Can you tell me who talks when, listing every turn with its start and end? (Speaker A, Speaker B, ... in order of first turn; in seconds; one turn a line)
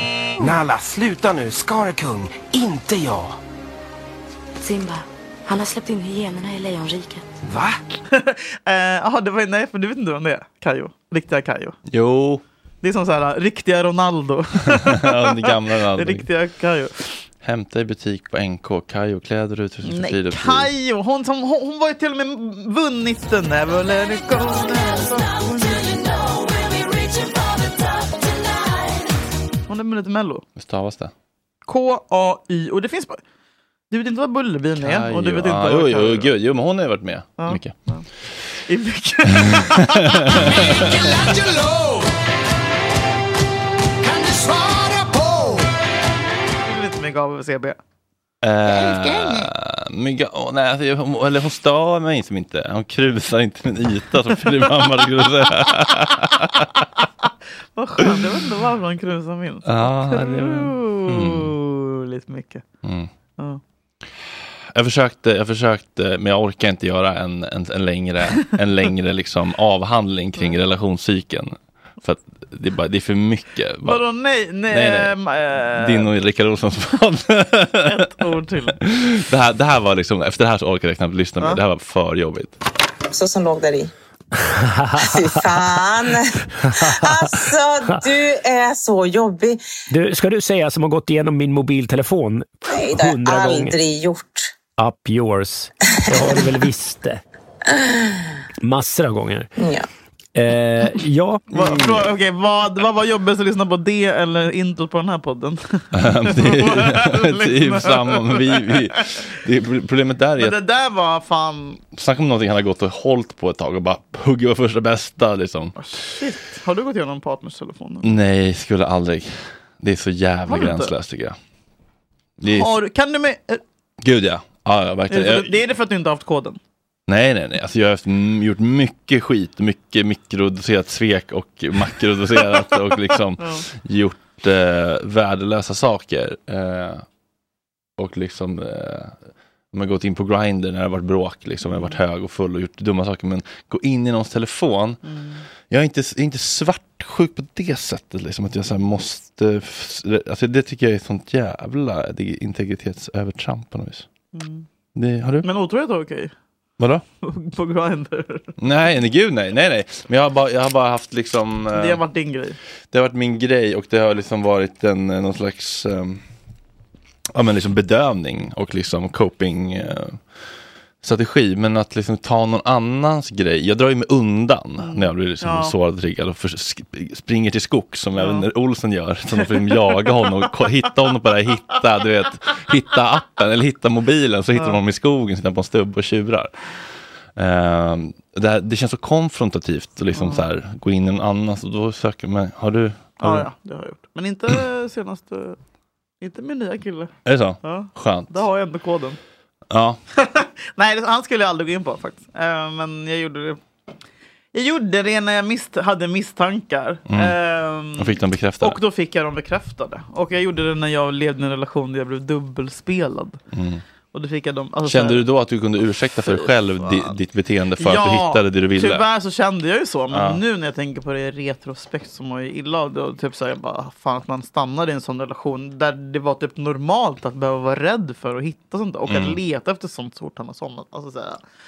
Speaker A: 0.4-3.4
Speaker B: 4.6-5.0
Speaker B: 5.5-7.2
Speaker A: 7.4-7.8
Speaker C: 8.1-11.8
Speaker D: 11.9-12.4
Speaker C: 12.8-17.2
Speaker D: 14.8-16.3
Speaker D: 17.4-20.7
Speaker C: 19.9-26.0
Speaker C: 29.7-30.4
Speaker D: 30.6-31.1
Speaker C: 31.7-33.2
Speaker C: 33.9-36.3
Speaker D: 34.8-37.7
Speaker C: 37.4-38.1
Speaker C: 38.6-40.8
Speaker D: 39.4-41.1
Speaker C: 46.6-47.8
Speaker D: 48.4-56.7
Speaker C: 48.6-49.5
Speaker C: 57.8-62.6
Speaker D: 59.6-61.5
Speaker D: 62.8-63.1
Speaker D: 64.7-74.0
Speaker C: 73.8-76.1
Speaker D: 74.7-75.2
Speaker D: 75.8-77.9
Speaker C: 77.8-78.8
Speaker D: 78.8-82.5
Speaker E: 83.1-83.9
Speaker F: 84.5-85.0
Speaker E: 85.0-89.6
Speaker F: 89.9-93.8
Speaker E: 92.7-94.5
Speaker F: 94.8-97.2
Speaker F: 98.6-99.5
Speaker E: 99.5-99.8
Speaker F: 100.3-102.1
Speaker C: 101.5-108.7
Speaker D: 105.9-110.5
Speaker C: 110.4-111.8
Speaker D: 111.9-115.8
Speaker C: 115.8-118.1
Speaker D: 118.0-121.3
Speaker C: 120.5-120.9
Speaker D: 122.4-122.7
Speaker C: 122.5-123.6
Speaker D: 124.0-125.6
Speaker C: 125.1-126.6
Speaker D: 127.1-137.0
Speaker D: 138.0-139.2
Speaker D: 139.7-145.0
Speaker C: 141.6-141.9
Speaker C: 145.0-145.4
Speaker D: 145.7-154.1
Speaker C: 154.3-154.7
Speaker D: 154.9-155.5
Speaker C: 155.4-156.3
Speaker D: 156.8-157.0
Speaker C: 157.2-158.5
Speaker D: 158.6-162.0
Speaker C: 161.7-162.6
Speaker D: 162.9-166.2
Speaker D: 167.3-170.2
Speaker D: 171.0-186.5
Speaker C: 174.8-175.7
Speaker C: 178.2-178.4
Speaker C: 184.5-184.8
Speaker D: 187.3-193.5
Speaker C: 190.1-190.4
Speaker C: 193.2-195.6
Speaker C: 196.2-197.1
Speaker D: 197.2-198.4
Speaker C: 197.6-199.2
Speaker D: 199.7-200.0
Speaker C: 200.2-203.6
Speaker C: 204.5-213.4
Speaker D: 207.1-207.4
Speaker D: 207.9-208.8
Speaker D: 213.5-213.8
Speaker C: 214.1-215.2
Speaker D: 214.8-219.0
Speaker C: 216.3-217.1
Speaker C: 217.8-231.4
Speaker D: 220.1-220.4
Speaker D: 229.1-229.4